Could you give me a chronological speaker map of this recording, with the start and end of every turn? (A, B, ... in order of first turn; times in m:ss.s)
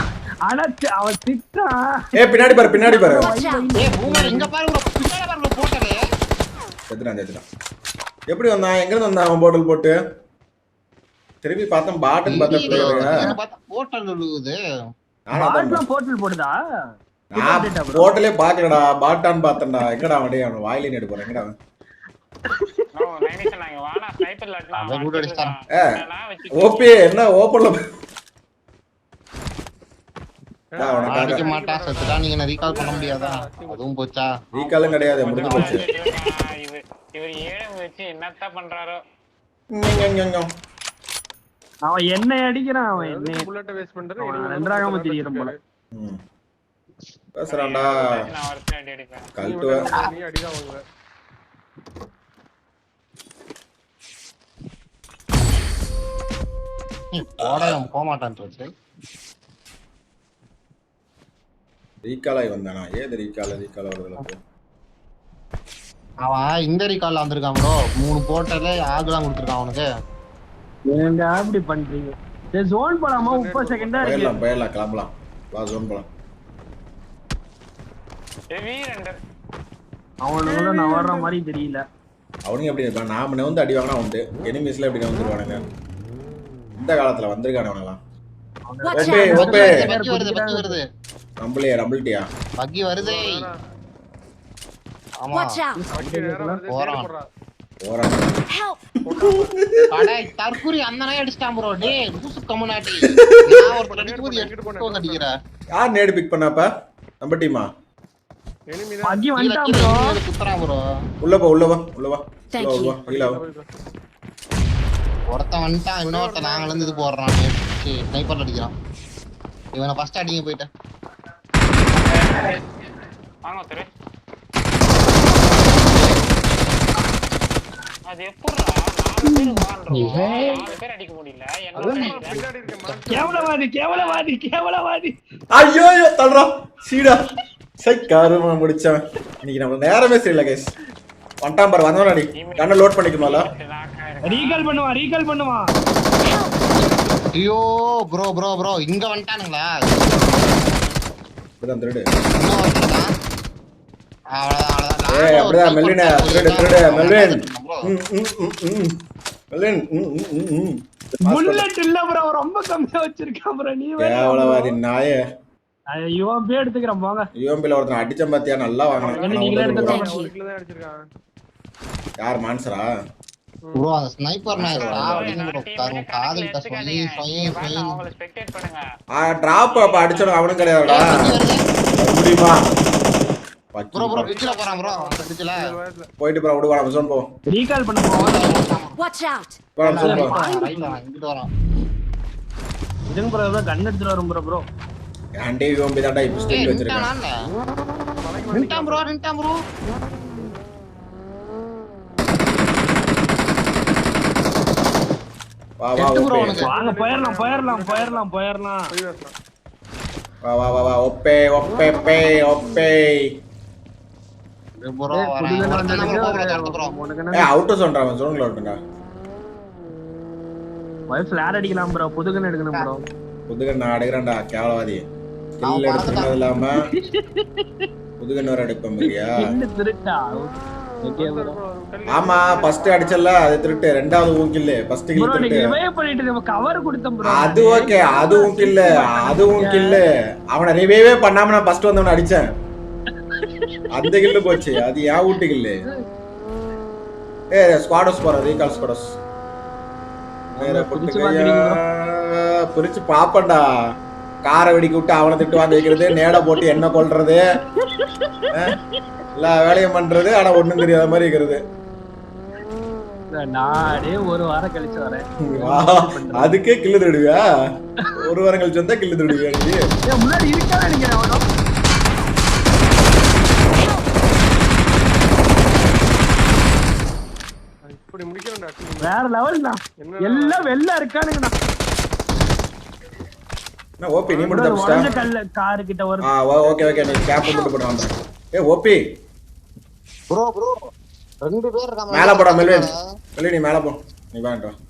0:00.5-0:04.5 A
0:02.2-0:03.3 B
0:03.0-0:03.7 C
0:03.8-0:06.0 D
0:06.9-0:07.4 B
0:08.3-0:10.0 B
0:11.4-0:13.3 B
0:12.3-0:14.6 D
0:12.7-0:13.0 A
0:15.3-0:15.8 B
0:15.4-0:16.6 A
0:17.3-0:21.6 B
0:17.4-0:18.1 A
0:23.0-0:26.9 E
0:24.7-0:25.5 D
0:26.6-0:27.8 B
0:30.7-0:33.9 F
0:30.8-0:31.4 B
0:31.0-0:34.3 D
0:34.5-0:35.9 B
0:34.7-0:39.0 E
0:34.9-0:35.8 F
0:39.7-0:40.5 B
0:41.9-0:43.4 A
0:43.0-0:45.6 F
0:44.2-0:45.5 A
0:45.9-0:46.2 B
0:47.4-0:48.1 B
0:47.5-0:49.3 E
0:49.4-0:49.9 B
0:49.4-0:50.8 F
0:57.1-0:58.7 D
0:57.5-0:57.8 B
1:02.0-1:04.4 B
1:06.3-1:09.9 D
1:10.9-1:14.3 A
1:13.2-1:14.4 F
1:14.0-1:16.1 B
1:18.5-1:19.2 E
1:20.2-1:21.8 A
1:20.5-1:21.2 F
1:22.5-1:25.6 B
1:26.8-1:28.0 B
1:28.7-1:30.8 A
1:28.9-1:29.8 C
1:28.9-1:29.7 B
1:29.2-1:30.8 D
1:31.4-1:32.3 B
1:32.6-1:33.5 D
1:33.0-1:33.5 F
1:35.2-1:35.6 D
1:35.3-1:35.8 C
1:35.8-1:36.7 A
1:35.9-1:37.3 F
1:36.7-1:37.1 D
1:37.8-1:38.3 B
1:38.5-1:38.8 C
1:39.0-1:39.5 F
1:39.9-1:45.3 D
1:43.0-1:43.6 B
1:43.6-1:45.3 F
1:45.8-1:46.7 B
1:47.2-1:47.7 B
1:48.7-1:49.3 F
1:49.1-1:50.2 A
1:49.4-1:50.8 D
1:51.2-1:53.4 B
1:52.5-1:53.0 C
1:53.0-1:53.7 F
1:55.3-1:58.7 D
1:56.0-1:57.1 F
1:59.8-2:00.7 D
2:02.1-2:02.6 E
2:03.4-2:03.9 E
2:08.1-2:12.4 E
2:10.0-2:10.4 D
2:10.4-2:10.8 F
2:11.8-2:13.6 F
2:11.8-2:13.1 D
2:13.1-2:15.1 A
2:13.9-2:14.2 E
2:15.5-2:17.2 B
2:17.8-2:20.7 B
2:21.4-2:23.5 B
2:22.4-2:24.7 E
2:24.3-2:25.6 A
2:26.2-2:26.8 C
2:27.4-2:30.8 D
2:31.6-2:32.1 B
2:32.4-2:33.1 D
2:34.4-2:37.9 D
2:35.1-2:38.9 B
2:39.5-2:41.6 B
2:41.2-2:44.8 A
2:44.0-2:45.2 B
2:45.9-2:47.3 A
2:47.4-2:50.0 B
2:48.9-2:51.0 F
2:49.1-2:50.1 A
2:49.7-2:50.3 C
2:52.2-2:52.9 B
2:53.8-2:58.0 D
2:54.5-2:55.5 B
2:54.7-2:58.8 E
2:59.2-3:01.3 B
2:59.7-3:01.2 E
3:00.9-3:01.6 D
3:02.0-3:02.6 B
3:03.7-3:04.3 B
3:03.9-3:05.6 D
3:04.1-3:06.1 F
3:06.2-3:07.3 B
3:07.5-3:08.6 A
3:08.1-3:09.0 D
3:09.0-3:09.6 C
3:09.8-3:10.4 B
3:09.8-3:11.5 D
3:09.9-3:10.9 A
3:13.1-3:14.6 A
3:15.4-3:17.1 B
3:16.5-3:17.3 D
3:18.2-3:19.1 F
3:18.5-3:19.6 D
3:25.8-3:26.7 B
3:26.0-3:26.7 D
3:26.6-3:28.8 A
3:26.7-3:28.2 F
3:28.9-3:29.3 F
3:30.4-3:33.1 B
3:34.8-3:36.9 D
3:35.1-3:37.5 A
3:37.3-3:38.8 B
3:41.1-3:43.0 A
3:43.5-3:45.0 B
3:45.6-3:46.9 B
3:45.6-3:46.4 D
3:48.2-3:49.3 B
3:49.1-3:51.6 A
3:51.2-3:53.3 F
3:52.1-3:55.7 B
3:55.2-4:00.0 A
3:57.3-4:02.5 B
4:03.4-4:03.6 A
4:03.9-4:05.8 B
4:07.5-4:09.1 B
4:10.6-4:11.8 A
4:10.6-4:13.6 B
4:14.4-4:17.4 B
4:17.8-4:18.4 A
4:19.4-4:21.6 B
4:23.3-4:26.6 A
4:25.5-4:27.4 B
4:28.2-4:29.8 B
4:30.1-4:31.4 A
4:37.9-4:39.2 F
4:39.0-4:41.6 A
4:40.0-4:40.8 F
4:44.0-4:45.1 B
4:44.3-4:45.3 F
4:44.5-4:46.3 A
4:46.3-4:49.0 B
4:46.6-4:47.4 F
4:47.4-4:47.7 C
4:50.3-4:50.8 D
4:51.4-4:53.0 D
4:52.1-4:54.7 B